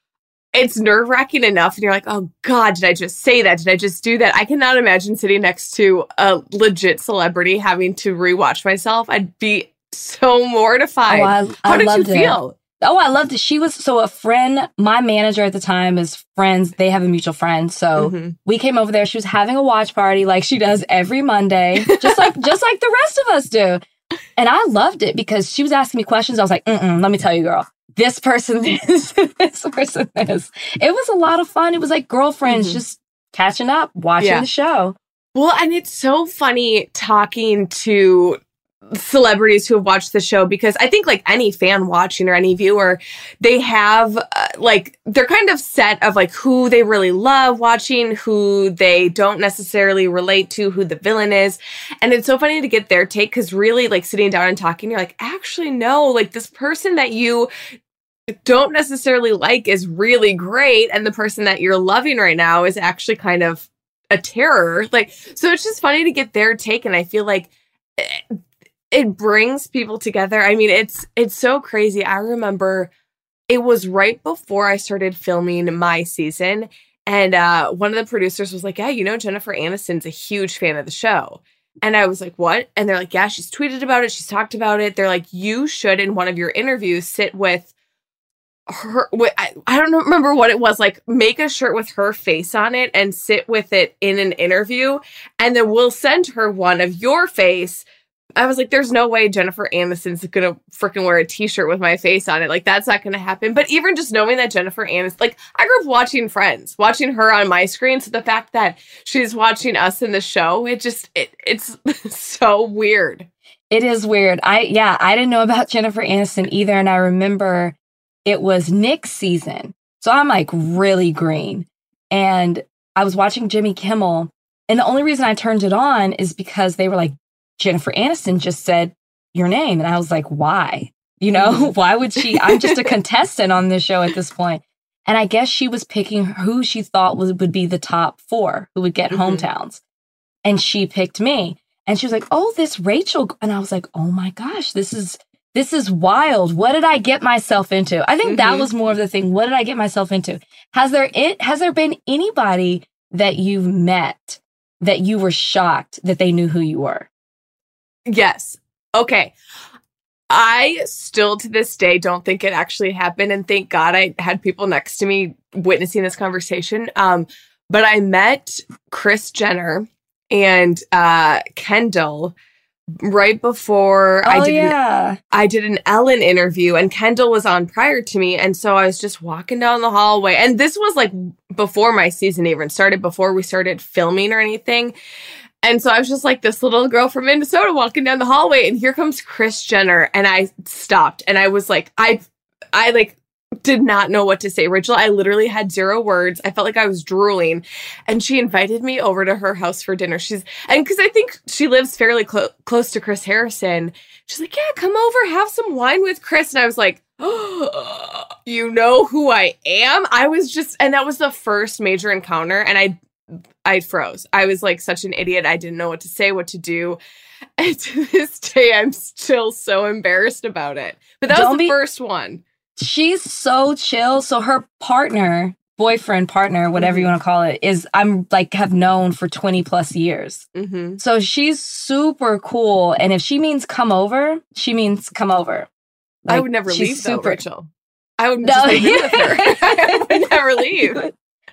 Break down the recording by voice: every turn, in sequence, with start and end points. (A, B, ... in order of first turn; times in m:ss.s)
0:00.5-0:12.6 A
0:11.1-0:23.8 B
0:18.0-0:18.4 A
0:21.8-0:22.3 A
0:24.4-0:35.0 B
0:32.5-0:32.8 A
0:34.2-0:34.5 A
0:35.4-0:38.4 A
0:38.9-0:57.5 A
0:58.4-1:08.4 A
1:08.9-1:12.9 A
1:13.5-1:27.7 A
1:28.7-1:53.3 A
1:53.7-1:57.8 B
1:58.3-2:19.8 B
2:11.3-2:12.9 A
2:19.1-2:19.5 A
2:20.4-2:37.1 B
2:28.2-2:28.7 A
2:38.1-2:39.3 A
2:40.3-2:52.3 A
2:53.0-2:54.8 A
2:54.2-2:55.2 B
2:55.3-3:05.0 A
3:05.6-3:33.0 A
3:33.6-3:37.0 A
3:37.6-3:42.4 A
3:41.3-3:41.8 B
3:42.8-3:50.4 B
3:46.8-3:47.1 A
3:50.6-3:51.0 A
3:51.0-3:55.7 B
3:56.2-3:57.4 B
3:56.3-3:57.7 A
3:58.2-4:01.0 A
3:58.4-4:01.1 B